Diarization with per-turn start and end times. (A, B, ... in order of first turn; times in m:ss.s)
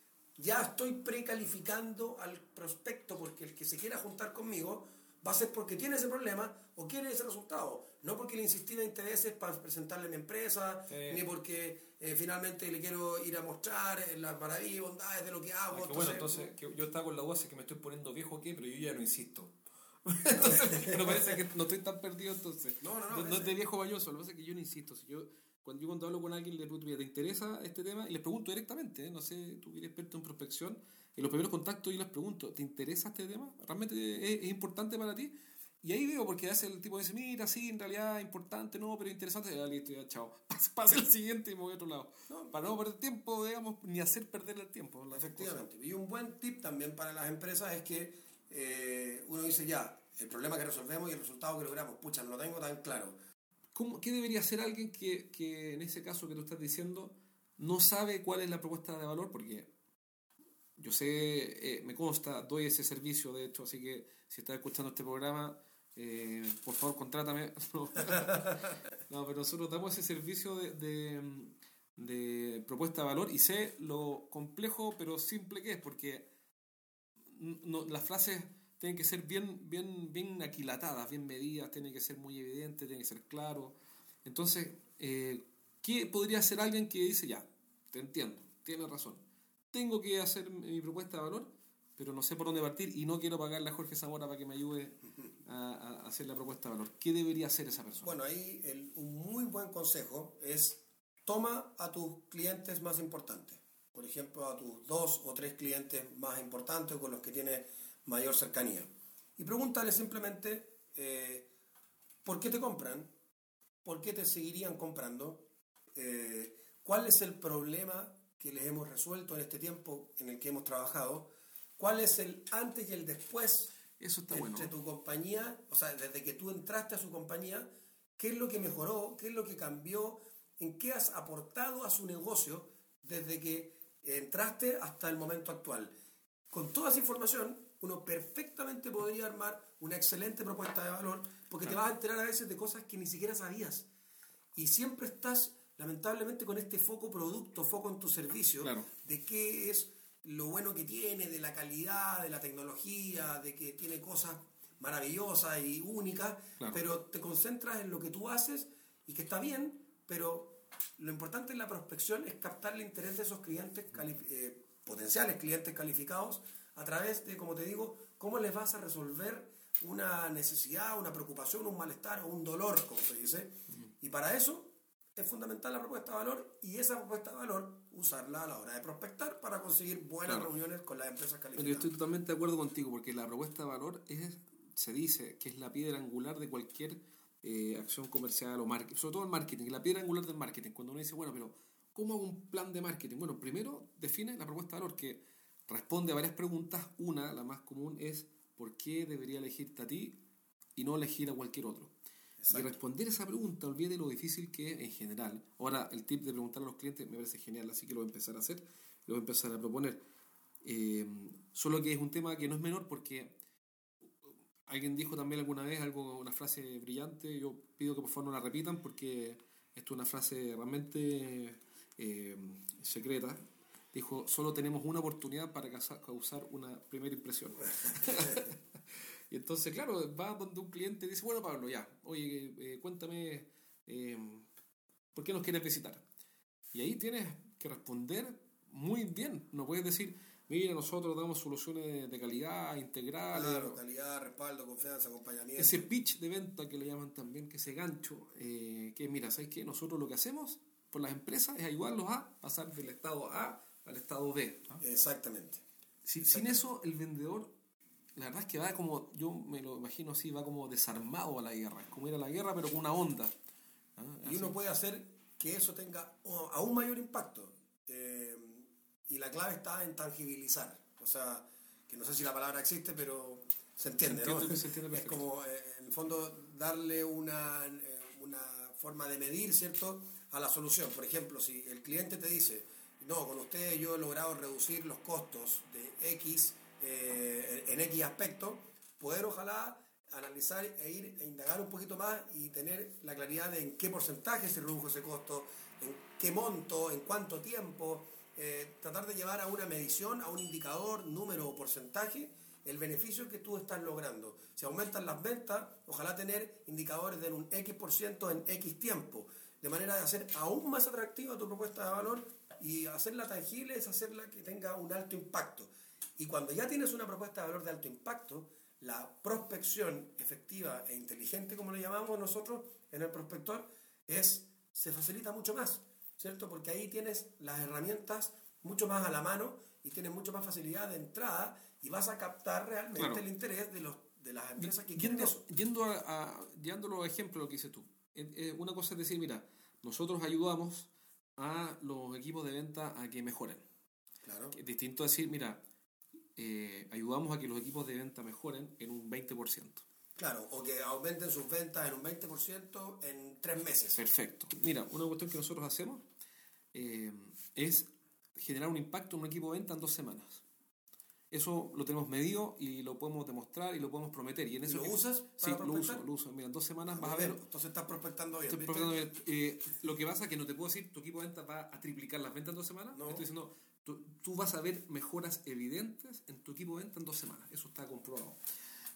0:00.4-0:16.5 A
0:10.9-0:11.2 B
0:15.7-0:45.7 B
0:20.4-0:21.3 A
0:22.8-0:23.6 A
0:42.3-0:42.6 A
0:45.1-0:53.2 A
0:53.8-0:59.7 B
1:00.8-1:16.2 B
1:17.3-1:38.2 B
1:38.0-1:51.5 A
1:52.2-1:53.1 A
1:53.8-1:55.4 A
1:56.0-2:03.7 A
2:04.0-2:04.7 B
2:04.3-2:15.9 A
2:16.5-2:23.9 A
2:24.6-3:01.9 A
2:28.6-2:28.9 B
3:00.2-3:00.5 B
3:01.6-3:20.2 B
3:20.8-3:21.9 B
3:22.4-3:22.8 A
3:22.5-3:30.0 B
3:30.6-3:33.4 B
3:34.6-3:43.4 B
3:43.9-3:48.6 B
3:49.3-3:54.5 B
3:55.1-3:56.0 B
3:56.7-4:03.8 B
4:03.3-4:05.9 A
4:05.6-4:14.8 B
4:14.8-4:15.6 A
4:16.0-4:17.5 B
4:16.2-4:16.7 A
4:18.2-4:23.3 B
4:24.0-4:24.6 B
4:24.2-5:35.4 A
4:34.1-4:35.2 B
5:33.0-5:33.2 B
5:34.6-5:43.6 B
5:44.2-5:44.6 A
5:44.5-5:45.6 B
5:46.4-5:49.8 B
5:50.2-5:54.0 A
5:53.9-5:56.0 B
5:56.7-6:00.4 B
6:01.3-6:07.4 B
6:04.6-6:06.0 A
6:06.9-6:09.0 A
6:08.4-6:18.4 B
6:12.9-6:13.2 A